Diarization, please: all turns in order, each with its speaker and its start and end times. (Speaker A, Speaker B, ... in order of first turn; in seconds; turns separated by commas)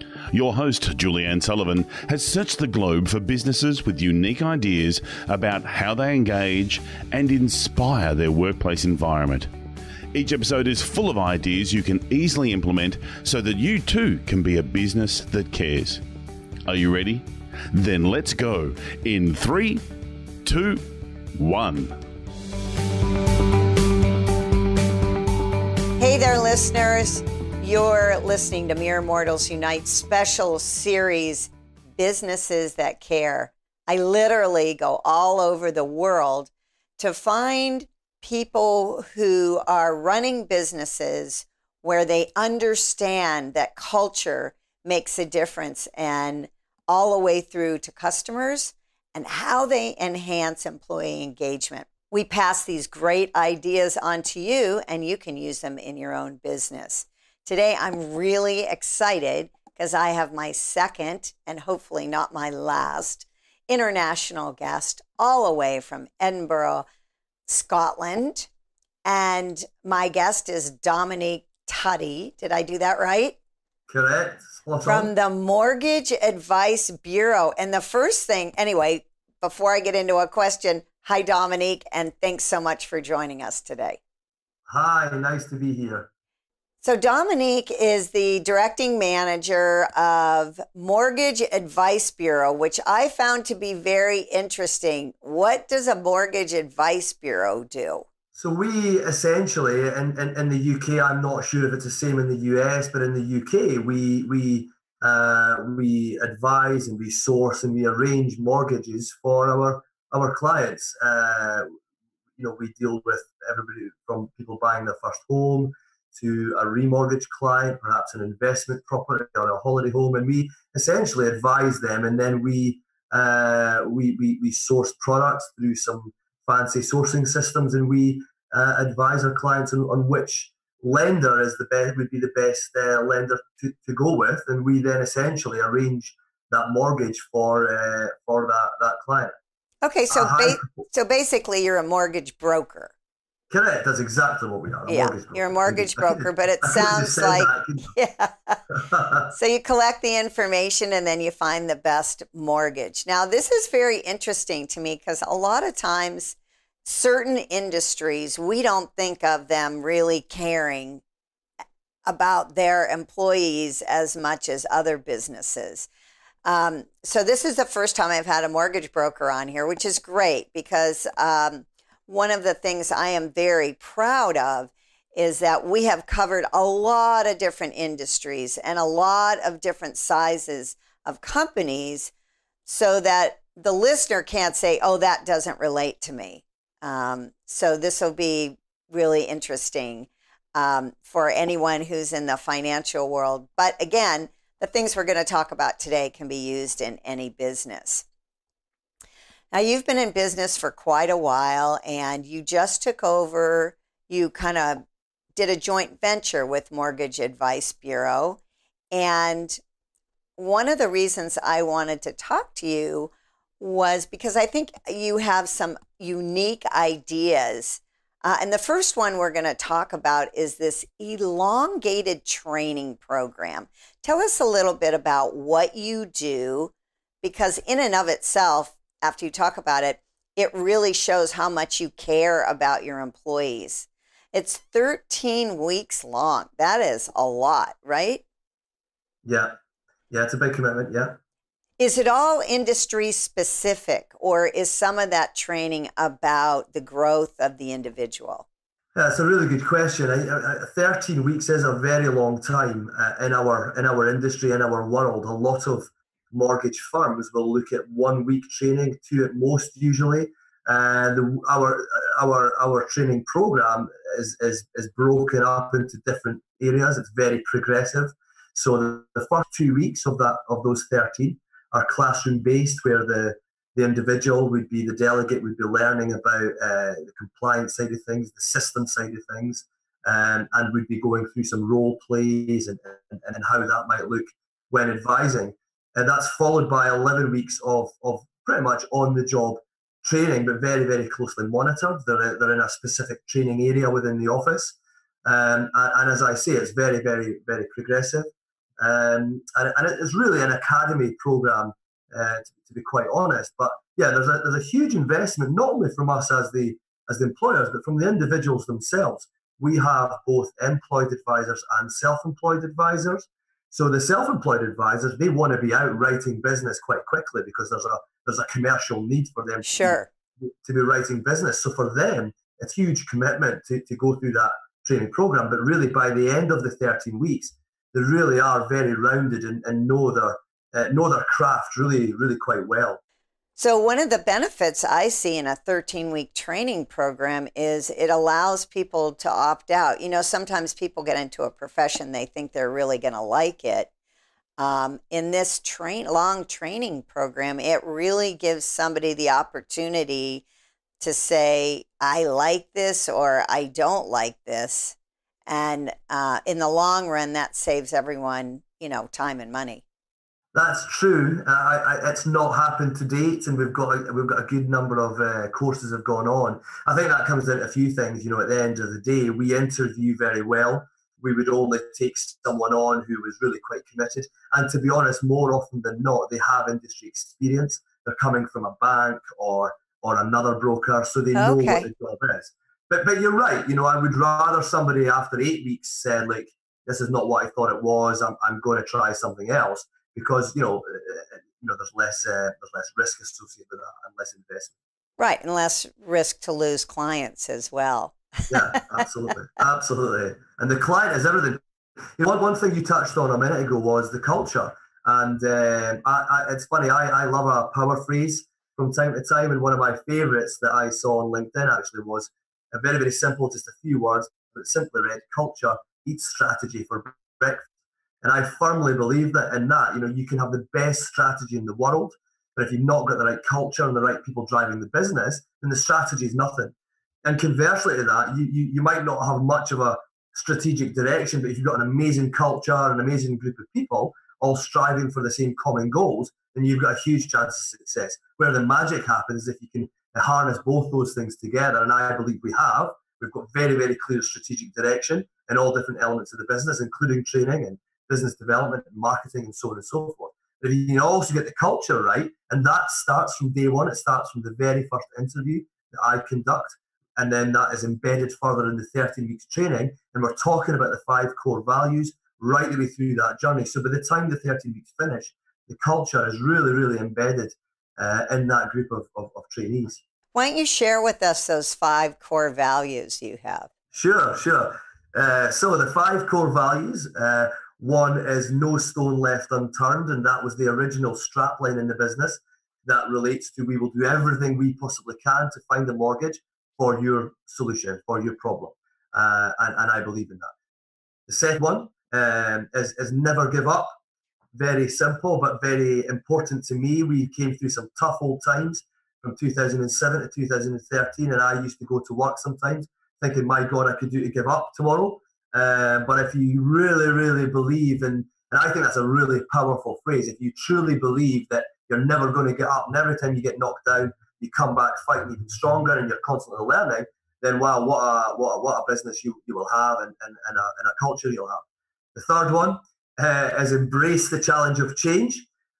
Speaker A: 0.3-9.5, Speaker A: 10.1-16.0, Speaker A: 16.7-19.8, Speaker A: 20.4-20.8, Speaker A: 21.3-21.9, Speaker B: 26.0-66.8, Speaker B: 67.5-68.5, Speaker B: 69.0-73.4, Speaker C: 73.9-75.1, Speaker B: 74.8-84.0, Speaker C: 84.7-86.1, Speaker B: 86.8-98.0, Speaker C: 98.3-111.7, Speaker C: 112.4-139.3, Speaker B: 139.8-142.9, Speaker C: 140.1-140.8, Speaker C: 143.5-147.9, Speaker B: 144.9-148.6, Speaker C: 148.7-149.3, Speaker B: 149.3-161.0, Speaker B: 162.1-165.9, Speaker B: 166.4-182.1, Speaker B: 182.7-198.1, Speaker B: 199.5-204.8, Speaker B: 205.4-208.4, Speaker B: 208.9-209.6, Speaker B: 210.4-238.2, Speaker C: 239.2-239.6, Speaker C: 240.1-241.2, Speaker B: 241.8-248.4, Speaker C: 248.9-333.0, Speaker B: 319.6-320.1, Speaker B: 333.6-343.9, Speaker B: 344.6-350.4, Speaker B: 351.0-354.9, Speaker B: 355.5-359.8, Speaker C: 360.5-394.7, Speaker B: 381.3-381.9, Speaker B: 395.2-399.0, Speaker C: 398.5-401.6, Speaker C: 402.2-417.7, Speaker C: 418.2-470.0, Speaker B: 470.3-473.7, Speaker C: 473.9-490.5, Speaker C: 491.3-494.0, Speaker C: 494.5-525.5